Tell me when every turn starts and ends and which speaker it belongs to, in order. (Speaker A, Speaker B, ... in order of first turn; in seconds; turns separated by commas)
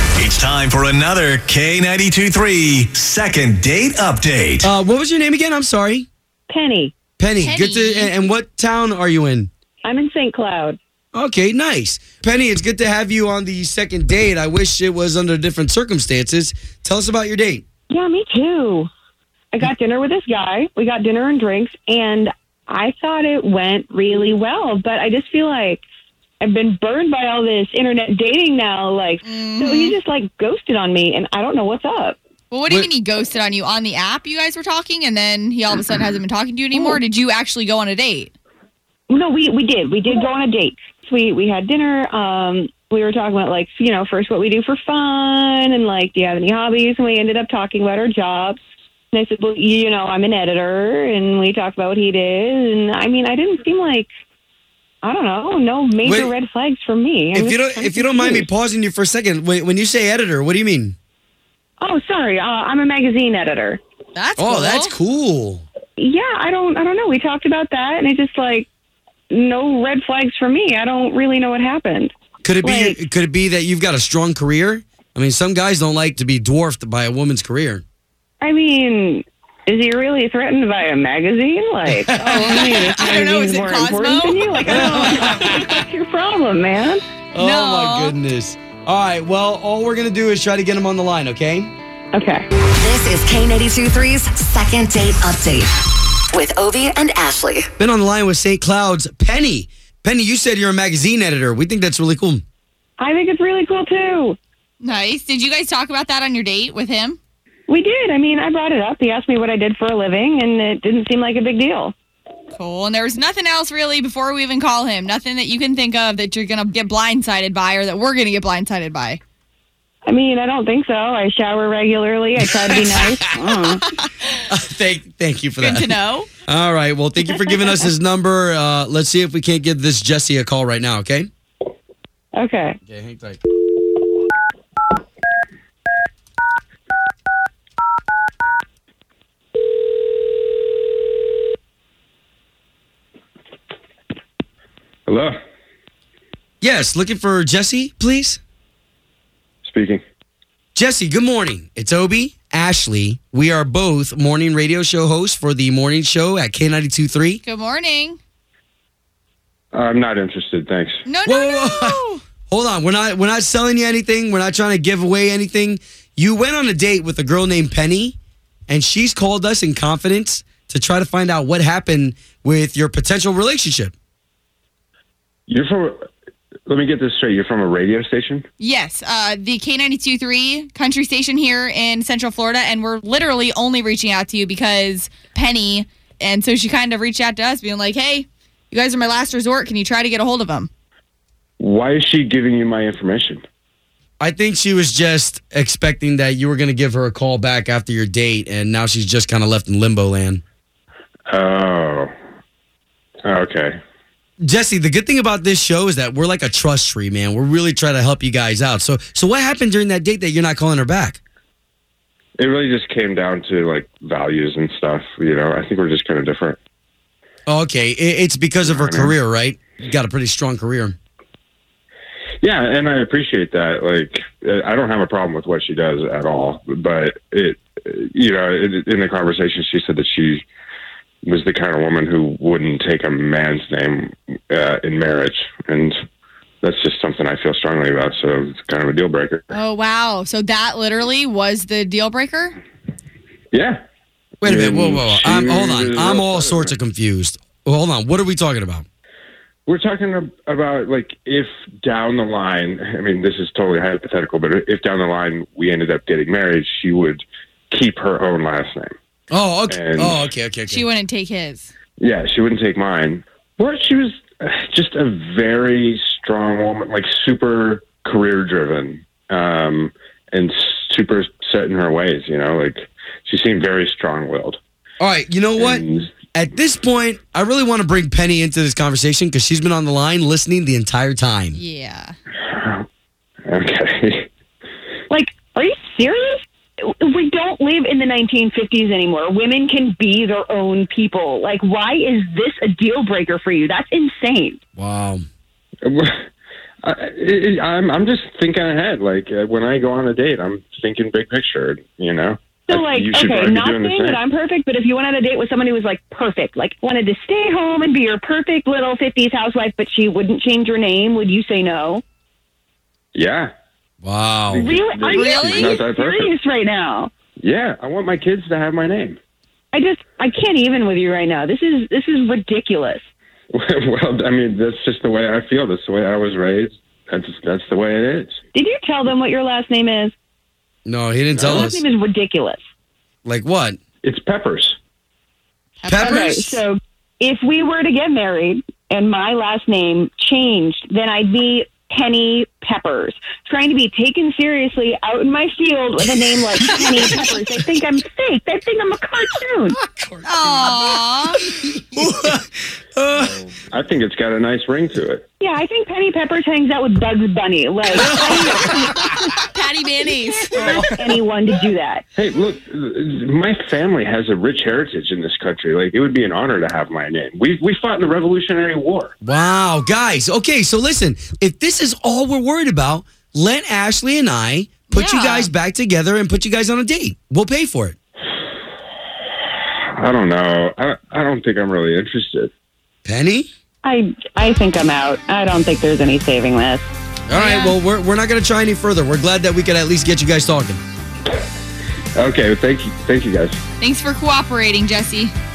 Speaker A: 0.2-4.7, Speaker B: 4.6-6.1, Speaker C: 6.5-6.9, Speaker B: 7.2-9.5, Speaker D: 7.4-8.1, Speaker C: 9.8-10.8, Speaker B: 11.1-17.6, Speaker C: 17.9-18.9, Speaker C: 19.5-25.8, Speaker C: 26.4-32.2, Speaker D: 29.2-30.0, Speaker D: 32.5-38.3, Speaker C: 36.7-37.0, Speaker C: 39.1-48.6, Speaker C: 49.1-54.1, Speaker C: 55.0-58.5, Speaker B: 56.0-56.3, Speaker B: 57.3-60.9, Speaker C: 61.8-63.8, Speaker D: 64.1-64.9, Speaker B: 64.4-65.6, Speaker C: 66.0-68.7, Speaker C: 69.3-73.0, Speaker B: 72.4-77.8, Speaker C: 78.4-87.0, Speaker B: 81.8-82.7, Speaker D: 82.3-84.9, Speaker B: 84.8-85.7, Speaker B: 87.3-91.7, Speaker D: 87.4-88.1, Speaker C: 92.1-92.5, Speaker E: 92.7-95.7, Speaker E: 96.3-97.7, Speaker B: 97.8-102.4, Speaker C: 103.0-104.4, Speaker D: 104.8-107.2, Speaker C: 107.7-111.9, Speaker D: 112.5-119.2, Speaker C: 120.0-123.8, Speaker B: 122.4-123.7, Speaker B: 124.5-131.3, Speaker D: 125.6-126.3, Speaker C: 127.3-127.7, Speaker C: 132.3-132.8, Speaker B: 132.8-133.4, Speaker F: 145.1-145.3, Speaker B: 146.6-148.4, Speaker F: 149.6-150.0, Speaker B: 150.7-157.4, Speaker D: 157.4-158.2, Speaker F: 159.7-161.0, Speaker D: 161.1-162.2, Speaker B: 161.2-168.2, Speaker B: 168.7-173.9, Speaker F: 175.5-176.0, Speaker F: 176.7-178.4, Speaker D: 178.6-190.7, Speaker F: 191.6-193.4, Speaker B: 194.2-200.4, Speaker F: 201.3-202.1, Speaker F: 203.2-203.8, Speaker B: 204.4-211.2, Speaker F: 212.4-216.6, Speaker B: 217.5-220.9, Speaker F: 218.6-219.1, Speaker F: 222.4-230.4, Speaker F: 231.2-235.9, Speaker F: 236.6-239.6, Speaker D: 239.5-242.6, Speaker F: 243.5-243.8, Speaker B: 244.4-248.8, Speaker F: 244.4-246.7, Speaker F: 249.7-258.9, Speaker B: 259.3-260.9, Speaker F: 259.7-260.2, Speaker D: 260.7-261.7, Speaker F: 262.0-274.6, Speaker B: 275.0-281.6, Speaker F: 275.6-276.1, Speaker D: 281.5-282.1, Speaker F: 282.5-282.8, Speaker F: 283.4-284.3, Speaker C: 285.1-294.6, Speaker B: 294.8-295.2, Speaker F: 295.8-296.2, Speaker F: 296.8-304.2, Speaker C: 302.7-312.0, Speaker F: 313.1-313.5, Speaker B: 314.0-314.7, Speaker F: 314.5-316.3, Speaker C: 314.6-317.1, Speaker D: 315.1-315.8, Speaker F: 317.4-319.2, Speaker C: 319.7-323.0, Speaker F: 323.5-328.4, Speaker C: 328.5-330.1, Speaker B: 330.9-331.8, Speaker F: 331.3-331.7, Speaker C: 331.4-332.6, Speaker B: 333.2-333.8, Speaker F: 334.0-334.8, Speaker D: 335.8-336.6, Speaker B: 335.9-336.5, Speaker C: 336.0-349.8, Speaker B: 346.8-347.1, Speaker B: 350.0-350.8, Speaker D: 350.2-351.4, Speaker B: 351.7-353.4, Speaker F: 353.1-355.2, Speaker C: 355.4-359.1, Speaker B: 357.9-358.9, Speaker D: 359.4-360.9, Speaker C: 360.3-362.0, Speaker B: 360.6-361.1, Speaker F: 362.1-369.1, Speaker B: 369.2-377.9, Speaker D: 374.9-375.5, Speaker F: 379.9-382.5, Speaker B: 383.0-383.5, Speaker C: 383.8-386.9, Speaker B: 387.3-390.8, Speaker D: 387.3-387.8, Speaker F: 392.1-393.6, Speaker D: 393.8-395.3